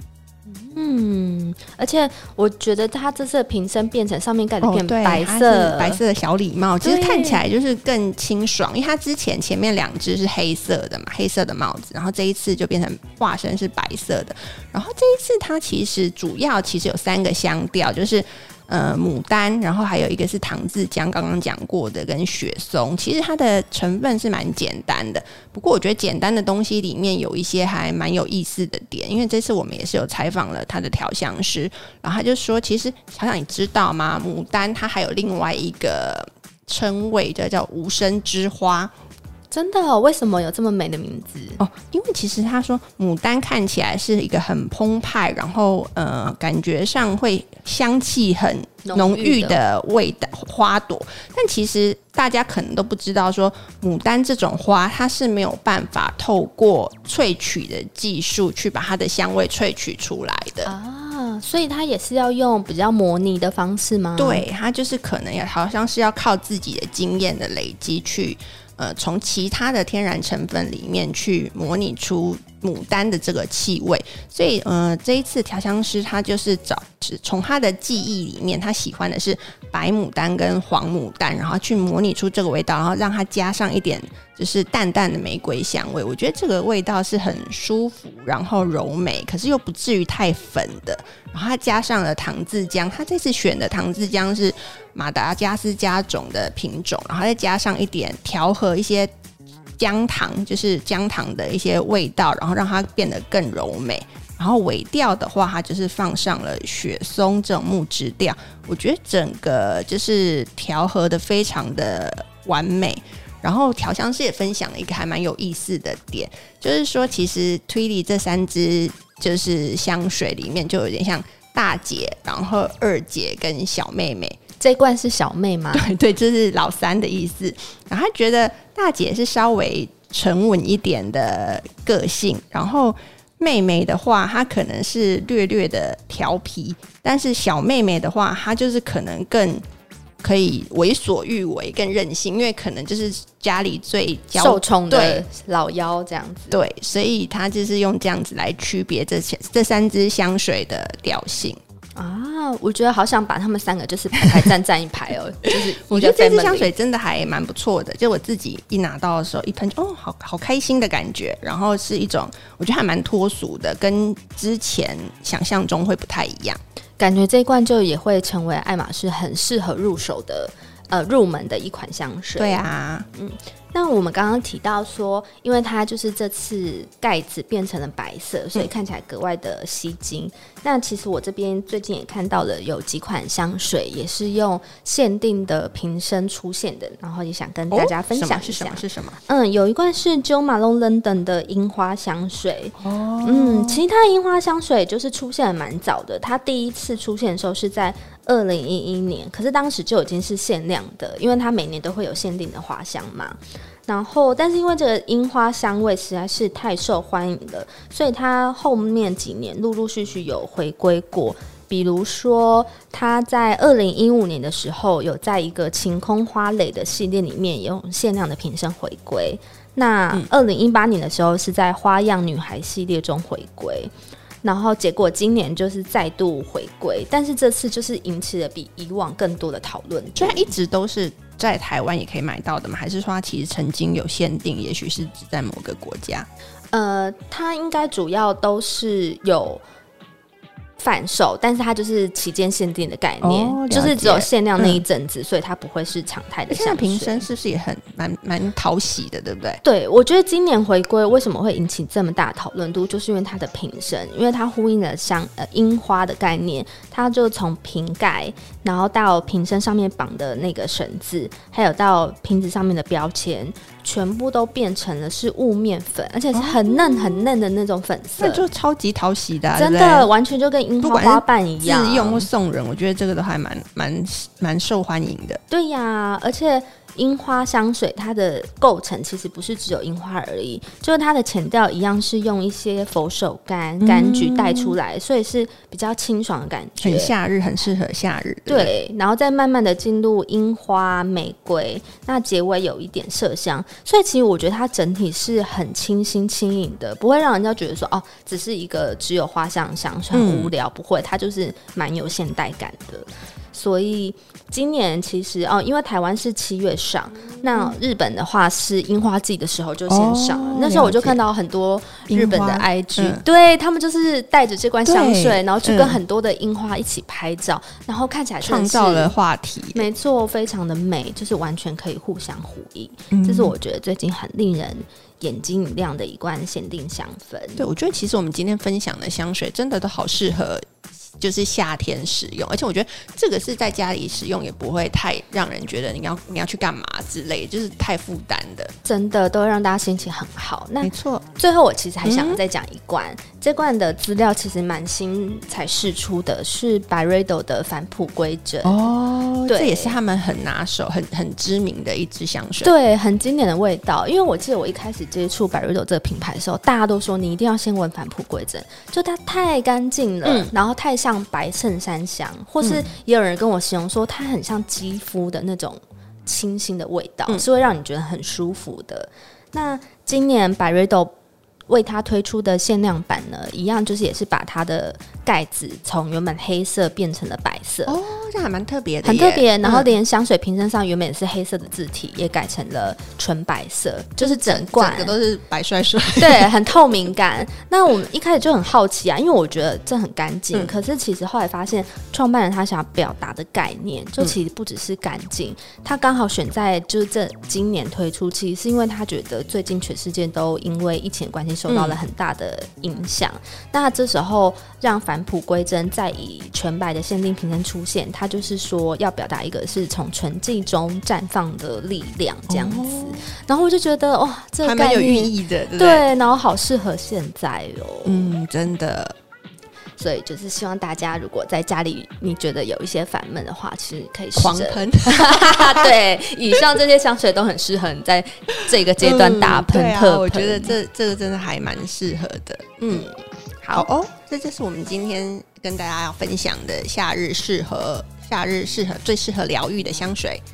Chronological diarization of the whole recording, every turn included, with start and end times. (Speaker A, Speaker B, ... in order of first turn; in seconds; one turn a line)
Speaker A: 0.5-6.0
Speaker B: 4.6-38.9
Speaker A: 6.8-7.4
Speaker A: 39.5-41.6
Speaker B: 41.6-60.7
Speaker A: 48.8-49.6
Speaker A: 60.6-64.4
Speaker B: 64.2-99.1
Speaker B: 99.8-124.4
Speaker A: 124.6-125.8
Speaker B: 125.7-139.6
Speaker B: 140.2-145.2
Speaker A: 144.3-146.6
Speaker B: 146.5-151.6
Speaker A: 152.0-156.7
Speaker B: 155.9-166.6
Speaker A: 167.0-172.6
Speaker B: 172.4-173.1
Speaker A: 173.1-223.9
Speaker B: 187.7-189.2
Speaker B: 192.8-193.8
Speaker A: 224.4-230.5
Speaker B: 230.2-236.3
Speaker A: 236.7-239.6
Speaker A: 240.8-247.3
Speaker B: 243.2-244.8
Speaker B: 246.5-249.6
Speaker A: 249.6-268.4
Speaker B: 266.3-267.2
Speaker B: 268.2-270.1
Speaker A: 269.6-272.3
Speaker B: 270.8-275.4
Speaker A: 275.5-287.1
Speaker B: 283.8-284.8
Speaker B: 286.8-288.7
Speaker A: 288.5-319.1
Speaker B: 300.1-300.5
Speaker B: 309.9-311.2
Speaker B: 312.1-313.2
Speaker B: 314.9-316.0
Speaker B: 318.4-319.9
Speaker A: 319.7-327.6
Speaker B: 323.1-323.5
Speaker B: 327.6-338.7
Speaker A: 338.9-348.9
Speaker B: 340.8-341.2
Speaker B: 342.0-342.4
Speaker B: 348.6-352.7
Speaker A: 349.5-350.0
Speaker A: 352.6-371.1
Speaker B: 360.2-360.5
Speaker B: 362.6-362.9
Speaker A: 371.7-378.0
Speaker B: 377.9-379.9
Speaker A: 379.0-385.2
Speaker B: 384.2-386.5
Speaker A: 386.2-418.4
Speaker B: 401.7-402.0
Speaker B: 412.5-413.2
Speaker B: 414.6-416.0
Speaker B: 418.1-419.1
Speaker A: 420.0-430.8
Speaker B: 424.4-425.9
Speaker B: 429.0-433.1
Speaker A: 432.8-433.9
Speaker B: 433.7-440.4